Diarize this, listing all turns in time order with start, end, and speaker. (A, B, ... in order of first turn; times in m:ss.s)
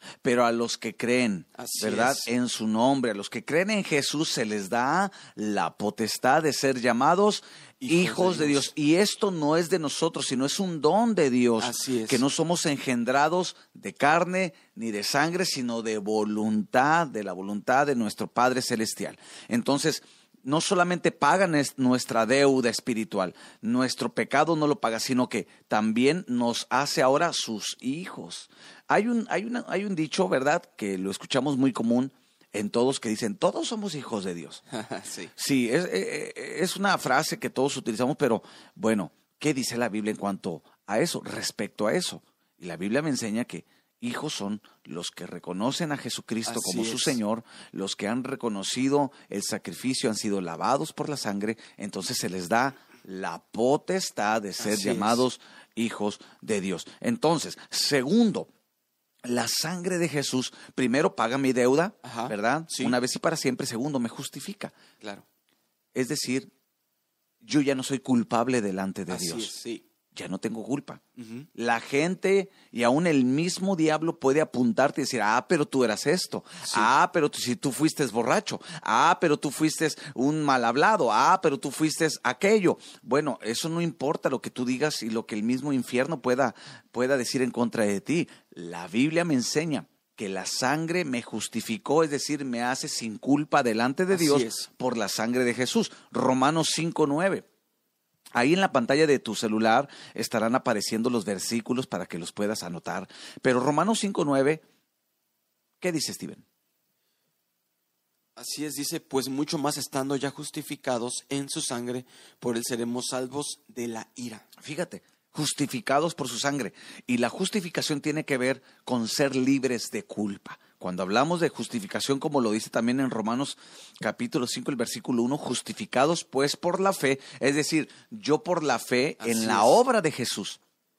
0:00.2-0:34.6 A
0:01.6-0:02.3 B
0:07.8-0:08.7 B
0:11.6-0:12.2 B
0:34.7-0:35.3 B
0:35.4-0:58.5 A
0:46.4-0:47.2 B
0:54.6-0:55.2 B
0:59.2-1:04.7 A
1:02.0-1:03.0 B
1:05.9-1:06.5 A
1:07.4-1:09.5 A
1:09.1-1:09.9 B
1:10.1-1:11.0 A
1:11.2-1:11.5 B
1:11.6-1:37.5 A
1:34.1-1:34.7 B
1:38.4-1:44.6 A
1:45.8-1:46.4 A
1:48.4-1:54.5 B
1:54.6-2:10.6 A
2:09.2-2:09.8 B